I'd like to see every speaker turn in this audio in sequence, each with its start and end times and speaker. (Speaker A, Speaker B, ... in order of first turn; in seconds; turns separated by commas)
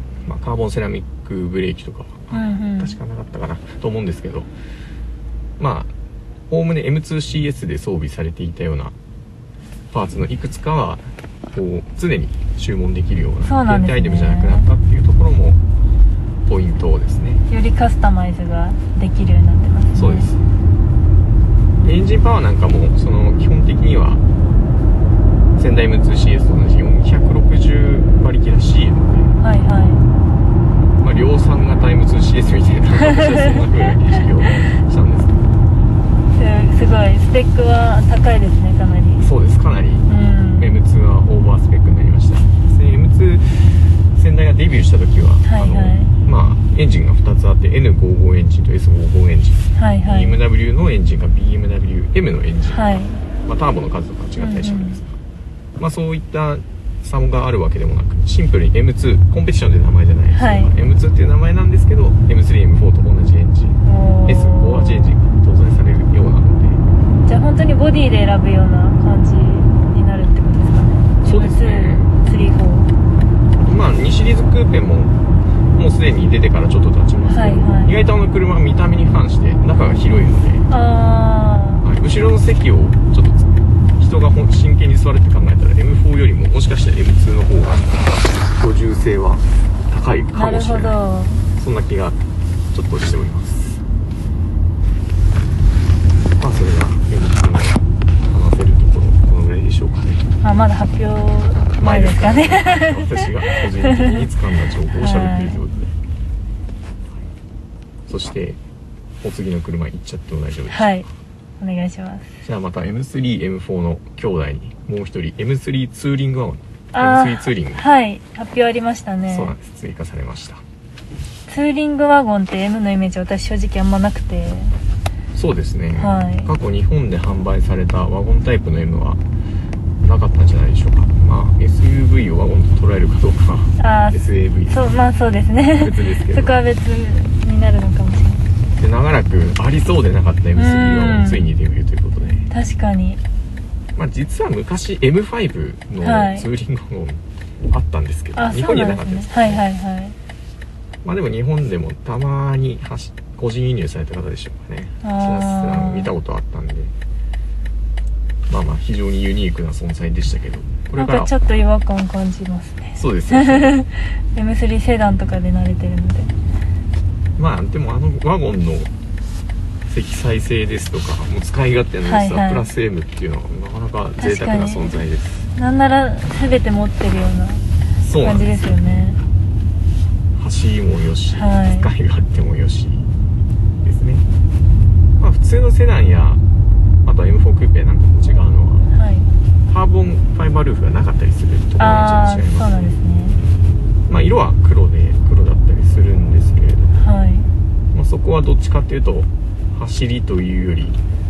Speaker A: 0.2-4.5, Speaker B: 2.3-3.0, Speaker A: 5.6-5.9, Speaker A: 6.5-8.9, Speaker A: 9.9-15.6, Speaker B: 13.4-14.7, Speaker A: 16.5-17.4, Speaker B: 17.5-20.3, Speaker A: 19.9-20.4, Speaker A: 21.8-24.2, Speaker A: 25.6-29.4, Speaker B: 29.4-30.1, Speaker A: 31.0-35.4, Speaker B: 33.0-33.7, Speaker B: 36.3-39.3, Speaker A: 39.2-55.1, Speaker B: 40.1-40.8, Speaker B: 45.5-46.1, Speaker B: 49.8-50.4, Speaker B: 52.7-53.3, Speaker B: 54.4-55.0, Speaker A: 55.8-66.8, Speaker B: 60.3-60.7, Speaker B: 63.9-65.2, Speaker B: 67.2-72.9, Speaker A: 71.2-72.2, Speaker A: 73.5-75.1, Speaker A: 75.8-80.7, Speaker B: 77.2-78.0, Speaker B: 80.7-81.8, Speaker A: 81.8-91.0, Speaker B: 90.3-91.5, Speaker A: 91.5-92.2, Speaker A: 92.7-93.8, Speaker A: 96.4-100.3, Speaker B: 100.4-104.3, Speaker A: 101.8-105.9, Speaker B: 104.9-105.6, Speaker A: 108.1-108.6, Speaker A: 109.2-111.1, Speaker B: 110.7-111.1, Speaker B: 111.6-112.3, Speaker A: 112.4-117.9, Speaker B: 116.9-119.5, Speaker A: 119.3-120.6, Speaker B: 121.5-124.8, Speaker A: 125.3-129.2, Speaker B: 125.9-126.5, Speaker A: 130.0-135.0, Speaker B: 133.8-138.5, Speaker A: 135.8-136.6, Speaker A: 138.8-142.5, Speaker B: 140.5-141.5, Speaker B: 142.5-143.2, Speaker A: 143.9-149.7, Speaker B: 146.0-146.5, Speaker B: 148.3-150.2, Speaker A: 151.0-156.9, Speaker B: 155.0-156.1, Speaker A: 158.5-161.3, Speaker B: 160.9-166.3, Speaker A: 162.9-163.8, Speaker A: 167.4-168.9, Speaker A: 169.9-175.5, Speaker B: 172.0-172.7, Speaker B: 174.2-175.0, Speaker B: 175.6-179.2, Speaker A: 178.0-179.1, Speaker A: 180.4-183.1, Speaker B: 181.3-181.9, Speaker A: 183.8-184.2, Speaker A: 185.2-186.4, Speaker A: 187.1-188.9, Speaker B: 188.9-189.3, Speaker A: 189.7-192.9, Speaker B: 191.8-193.4, Speaker A: 194.1-197.0, Speaker B: 196.9-197.5, Speaker A: 197.9-201.0